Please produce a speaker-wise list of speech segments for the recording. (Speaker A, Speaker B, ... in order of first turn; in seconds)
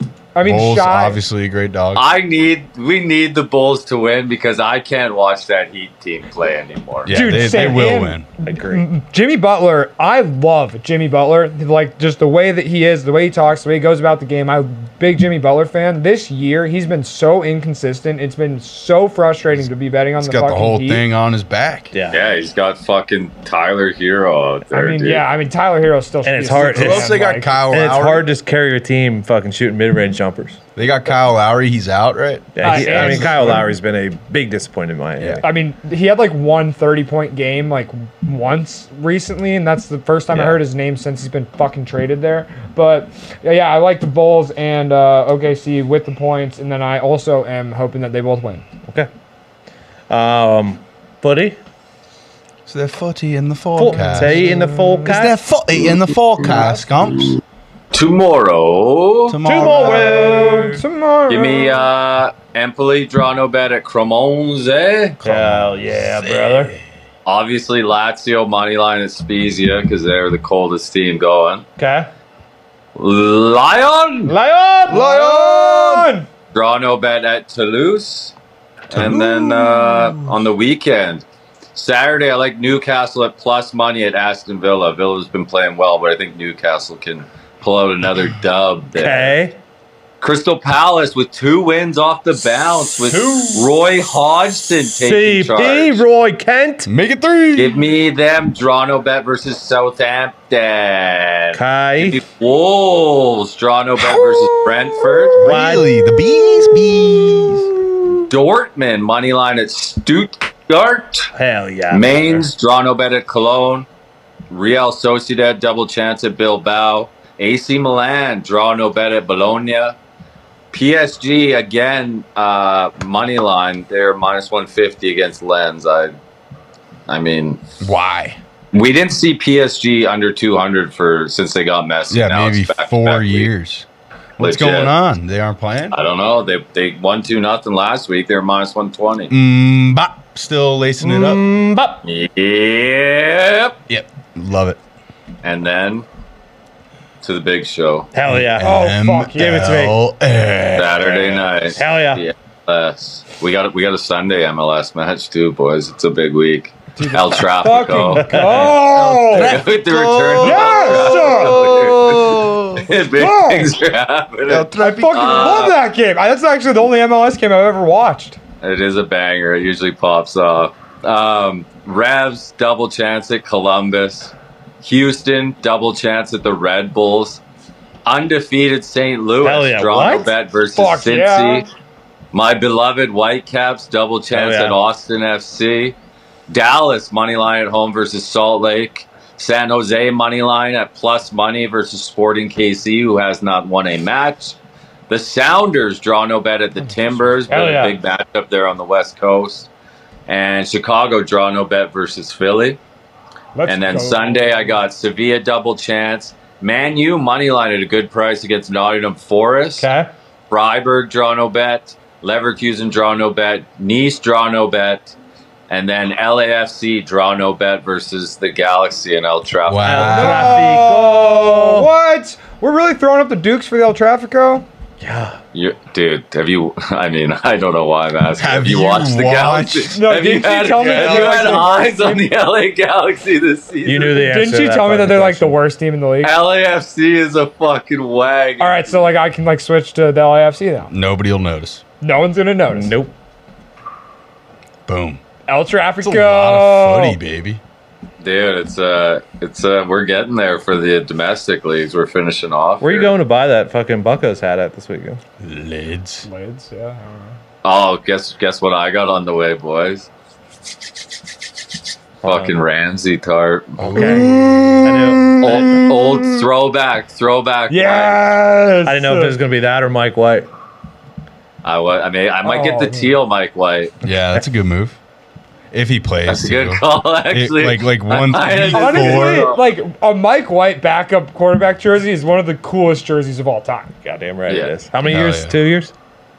Speaker A: 0.3-1.2, 7.1-21.0, 24.7-27.5, 32.6-33.6, 35.4-48.7, 53.9-55.1, 56.5-56.8, 59.5-61.9, 74.9-76.3, 148.6-149.7, 157.0-159.5, 160.4-161.8, 163.1-163.7, 164.8-168.4, 180.8-181.7, 196.8-197.7, 203.6-204.8, 220.1-224.7, 229.9-232.3, 234.0-236.3, 238.6-240.9, 242.0-243.0, 245.5-247.2, 256.2-257.4, 263.9-266.5, 267.7-269.4, 272.4-273.2, 278.7-283.9
Speaker B: 0.4-2.1, 7.0-8.2, 20.2-21.9, 26.5-28.2, 30.8-33.6, 35.2-35.4, 52.6-54.5, 55.0-57.4, 59.3-60.6, 65.2-66.7, 75.1-76.0, 78.9-80.3, 96.8-97.9, 105.4-107.7, 127.8-128.4, 132.1-133.8, 134.4-135.9, 139.3-141.4, 143.9-144.8, 148.3-151.4, 158.3-162.9, 164.4-165.7, 219.7-220.8, 228.4-230.0, 230.8-231.7, 240.9-241.8, 244.9-245.2, 246.0-247.6, 255.4-256.3, 263.8-265.4, 274.0-275.0, 275.7-279.5, 285.0-285.5
Speaker C: 1.9-7.1, 22.1-25.2, 57.9-59.4, 61.3-65.2, 67.2-71.6, 73.0-74.3, 76.5-78.3, 78.9-81.2, 81.7-89.3, 90.2-96.0, 97.5-105.4, 108.3-111.3, 111.9-113.9, 114.5-120.0, 120.7-126.1, 127.1-127.6, 128.7-133.5, 134.4-134.9, 135.9-139.3, 142.0-143.8, 145.4-146.0, 147.2-148.1, 150.8-158.3, 159.3-165.8, 168.6-177.4, 178.0-181.7, 182.3-185.9, 186.5-194.6, 195.1-199.7, 200.3-202.8, 203.7-209.8, 210.5-215.1, 215.7-220.3, 225.5-234.2, 236.2-239.1, 248.2-253.1, 257.6-260.1, 262.2-263.8, 265.4-268.2, 271.6-273.9, 276.3-279.7
Speaker D: 8.4-8.8, 21.9-22.2, 26.2-27.1, 27.7-30.6, 32.5-35.5, 40.3-40.6, 50.1-51.6, 53.8-55.4, 59.4-60.8, 65.2-66.7, 71.8-72.1, 74.2-76.0, 88.9-89.6, 93.1-93.8, 94.8-96.9, 101.5-102.2, 105.4-105.9, 111.3-112.5, 141.0-142.1, 148.1-148.7, 149.4-150.0, 151.7-152.2, 158.2-158.9, 179.4-180.3, 184.3-184.8, 197.5-197.9, 209.8-210.1, 219.8-221.9, 225.0-225.4, 233.8-235.6, 242.7-243.1, 252.8-255.2, 262.2-262.6, 263.8-264.3, 264.8-265.6, 268.8-270.5, 284.0-285.9